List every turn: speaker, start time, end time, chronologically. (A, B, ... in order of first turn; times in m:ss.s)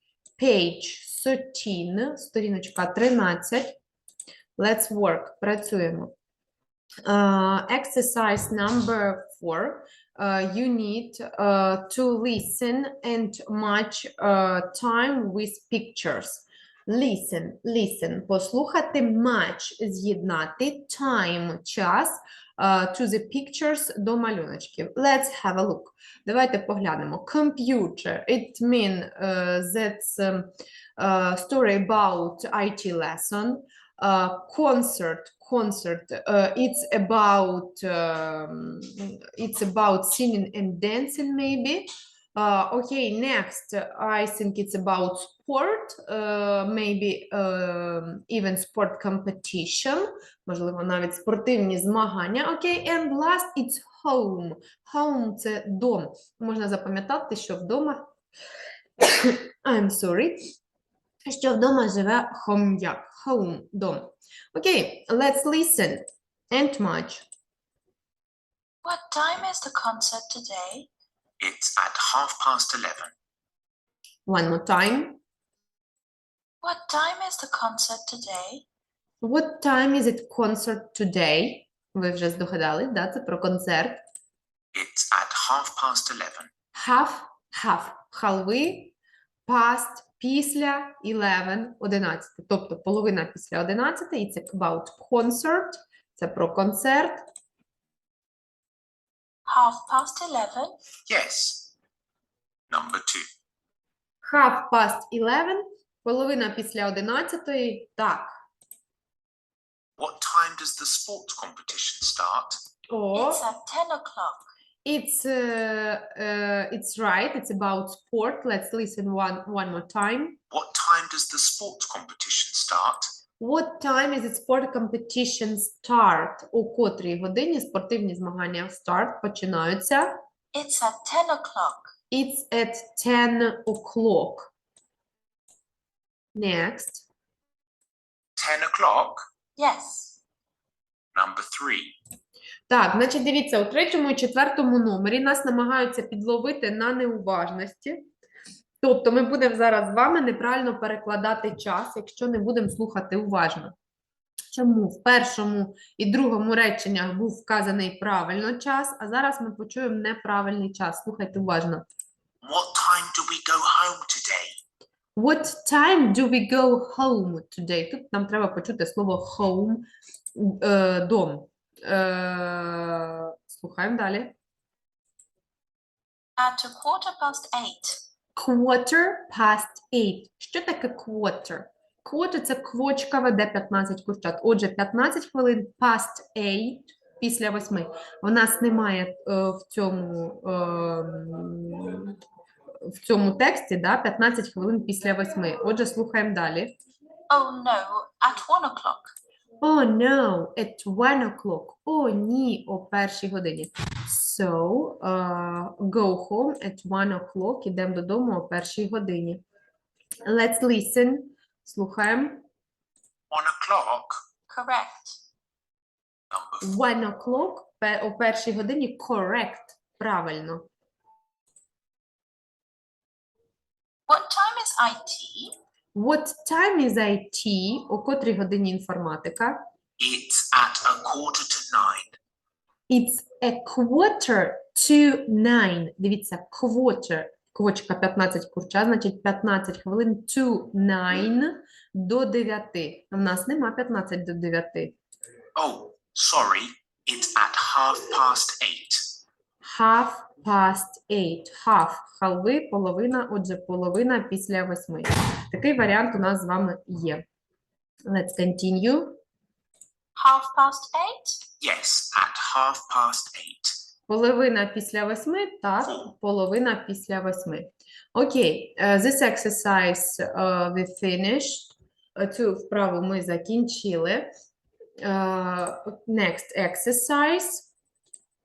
0:00.4-0:03.8 A
0:04.6-0:06.1 A
0:07.0-0:58.1 A
0:59.0-1:00.5 A
1:01.2-1:07.3 A
1:08.8-1:10.9 B
1:11.4-1:13.1 C
1:14.3-1:15.2 A
1:16.6-1:18.6 B
1:19.2-1:24.0 A
1:24.7-1:26.5 C
1:26.7-1:29.0 A
1:29.5-1:37.2 A
1:39.4-1:40.8 B
1:41.1-1:41.7 C
1:42.7-1:43.3 C
1:44.2-1:48.3 A
1:50.0-1:52.6 C
1:52.9-1:53.4 A
1:53.1-1:54.4 B
1:54.8-2:00.4 A
2:00.5-2:03.1 C
2:03.4-2:10.1 A
2:10.5-2:11.9 B
2:12.1-2:14.5 A
2:16.3-2:17.0 A
2:18.4-2:19.3 C
2:19.6-2:20.2 B
2:21.1-2:22.0 C
2:22.7-2:28.0 A
2:28.8-2:33.7 A
2:34.5-2:41.8 A
2:42.4-2:44.6 C
2:45.2-2:54.4 A
2:56.4-2:58.0 B
2:58.3-3:12.2 A
3:12.9-3:16.7 A
3:17.3-3:19.1 B
3:19.6-3:29.4 A
3:30.2-3:32.4 A
3:33.3-3:34.2 C
3:34.5-3:35.2 B
3:36.3-3:36.6 C
3:36.6-3:40.7 A
3:44.1-3:45.5 B
3:45.9-3:49.6 A
3:50.0-3:52.2 C
3:52.9-4:04.9 A
4:05.6-4:09.0 C
4:09.6-4:17.2 A
4:18.1-4:19.2 A
4:20.2-4:21.4 B
4:21.6-4:23.7 C
4:24.1-4:34.3 A
4:35.0-4:37.7 A